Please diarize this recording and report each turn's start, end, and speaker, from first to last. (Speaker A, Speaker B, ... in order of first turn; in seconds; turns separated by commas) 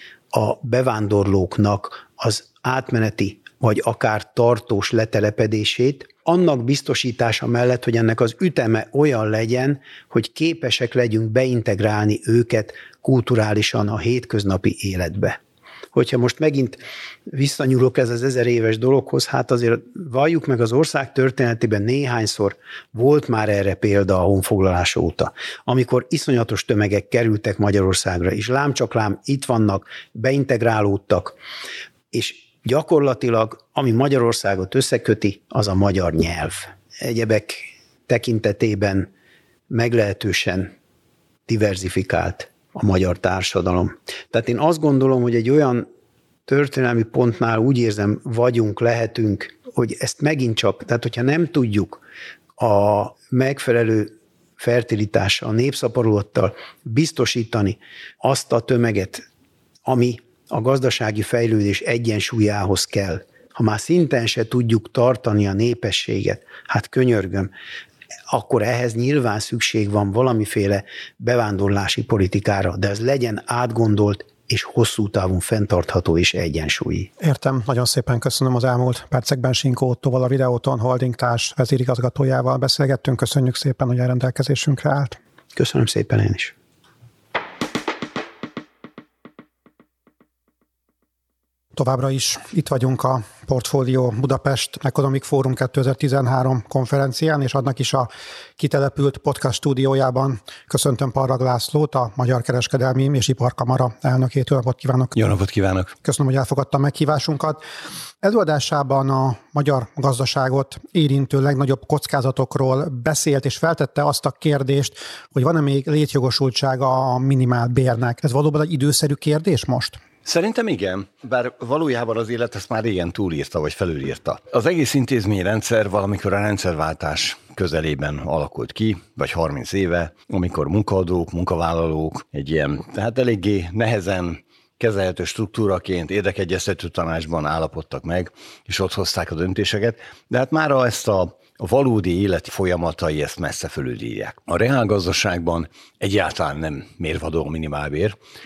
Speaker A: 0.3-15.4, Speaker A: 15.9-31.4, Speaker A: 32.1-39.1, Speaker A: 39.7-40.7, Speaker A: 41.5-45.8, Speaker A: 46.5-52.0, Speaker A: 52.6-59.2, Speaker A: 59.9-67.5, Speaker A: 68.3-77.1, Speaker B: 77.2-85.2, Speaker A: 85.5-86.5, Speaker B: 91.8-105.1, Speaker C: 105.1-105.9, Speaker B: 106.0-107.6, Speaker B: 108.2-120.0, Speaker C: 120.2-148.2